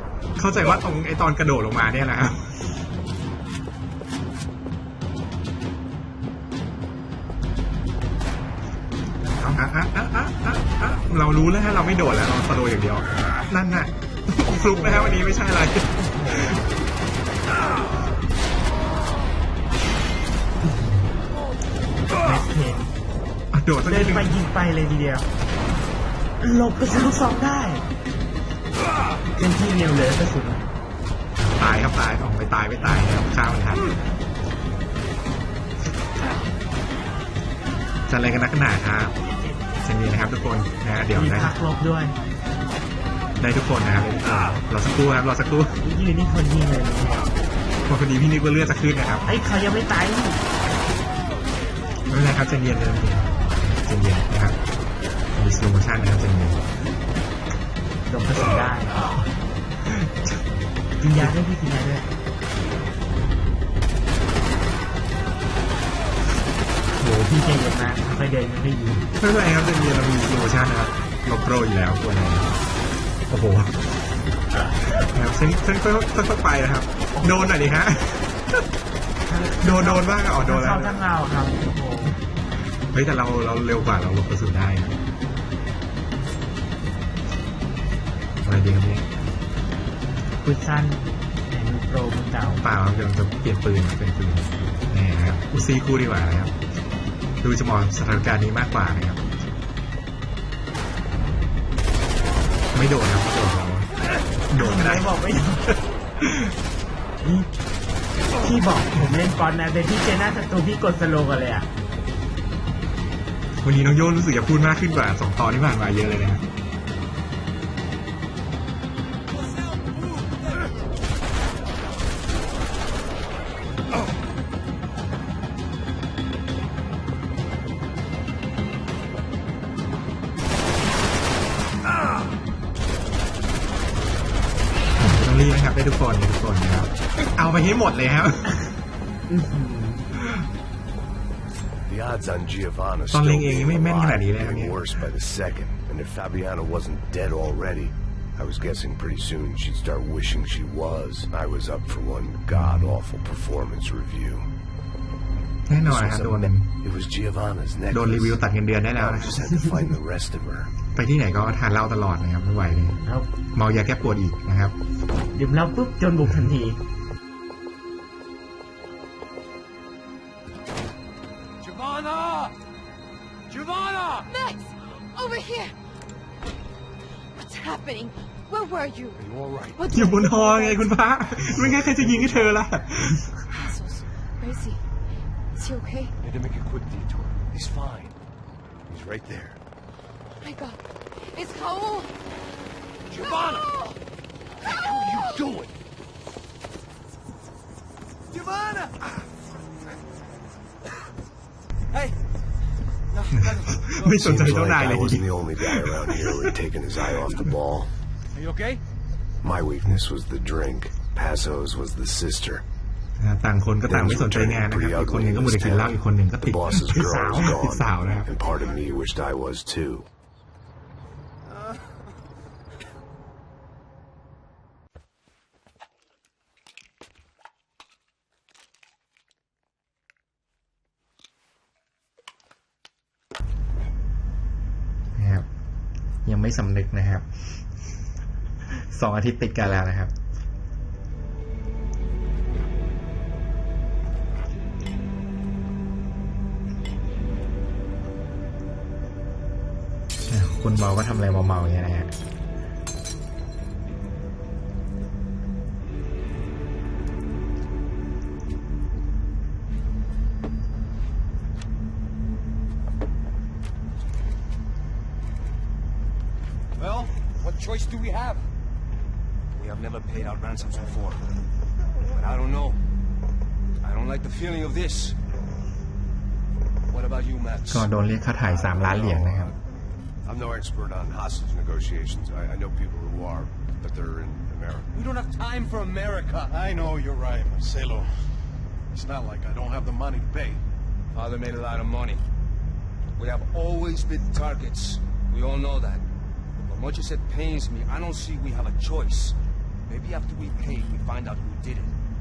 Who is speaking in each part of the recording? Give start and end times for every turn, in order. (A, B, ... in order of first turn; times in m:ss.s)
0:00.4-0:02.6 A
0:09.4-0:16.6 A
0:14.8-0:15.2 B
0:16.1-0:16.6 B
0:20.7-0:20.9 B
0:22.2-0:22.9 B
0:23.5-0:24.3 A
0:23.9-0:25.3 B
0:26.4-0:27.9 B
0:29.4-0:30.7 B
0:31.4-0:34.0 A
0:38.1-0:39.2 A
0:39.8-0:41.6 A
0:41.1-0:42.2 B
0:43.4-0:45.8 A
0:45.8-0:47.3 B
0:47.9-0:49.4 A
0:49.3-0:50.4 B
0:52.1-0:54.6 A
0:55.4-0:56.6 A
0:58.1-0:59.2 B
0:59.9-1:00.4 A
1:01.0-1:02.1 B
1:06.9-1:09.1 B
1:09.2-1:12.5 A
1:13.3-1:13.8 A
1:15.0-1:18.6 A
1:19.2-1:22.2 B
1:19.5-1:21.0 A
1:22.9-1:25.0 A
1:28.4-1:29.1 A
1:30.4-1:32.6 B
1:32.6-1:36.5 A
1:37.4-1:39.2 A
1:42.7-1:43.9 A
1:44.5-1:45.2 A
1:44.5-1:45.8 B
1:46.2-1:46.5 A
1:47.2-1:47.5 B
1:48.4-1:51.7 B
1:53.6-1:56.4 A
2:15.0-2:18.6 A
2:19.3-2:20.1 B
2:21.8-2:34.5 C
2:23.1-2:24.9 A
2:32.5-2:33.0 A
2:35.7-2:36.7 A
2:35.8-2:38.4 C
2:37.9-2:39.4 A
2:39.0-2:40.7 C
2:41.0-2:43.0 A
2:43.5-2:44.8 A
2:45.4-2:46.8 B
2:51.6-2:52.6 D
2:53.5-2:54.3 D
2:54.3-2:55.8 E
2:57.3-2:59.3 E
2:59.2-2:59.9 C
2:59.8-3:01.0 E
2:59.9-3:03.7 A
3:01.4-3:02.6 C
3:03.5-3:04.8 E
3:05.6-3:06.2 E
3:06.2-3:08.2 C
3:08.9-3:09.6 C
3:10.4-3:12.1 E
3:13.1-3:13.7 C
3:13.2-3:14.0 E
3:14.7-3:15.7 C
3:14.9-3:15.4 E
3:23.1-3:24.0 D
3:23.7-3:26.6 A
3:24.0-3:27.9 C
3:28.4-3:28.8 D
3:29.4-3:32.6 C
3:33.2-3:38.3 A
3:33.9-3:40.1 C
3:36.9-3:37.6 B
3:55.2-3:55.5 A
3:56.2-3:57.6 A
3:58.7-4:00.1 A
4:10.3-4:12.1 A
4:26.8-4:27.1 F
4:27.4-4:28.5 D
4:29.5-4:31.3 D
4:32.0-4:32.8 D
4:33.8-4:35.2 D
4:36.9-4:37.9 D
4:37.7-4:39.5 A
4:38.5-4:39.5 C
4:40.2-4:45.0 C
4:44.9-4:46.6 D
4:46.5-4:48.1 F
4:48.9-4:50.6 F
4:51.1-4:52.2 D
4:53.2-4:56.0 D
4:56.6-4:59.4 D
4:59.9-5:01.9 D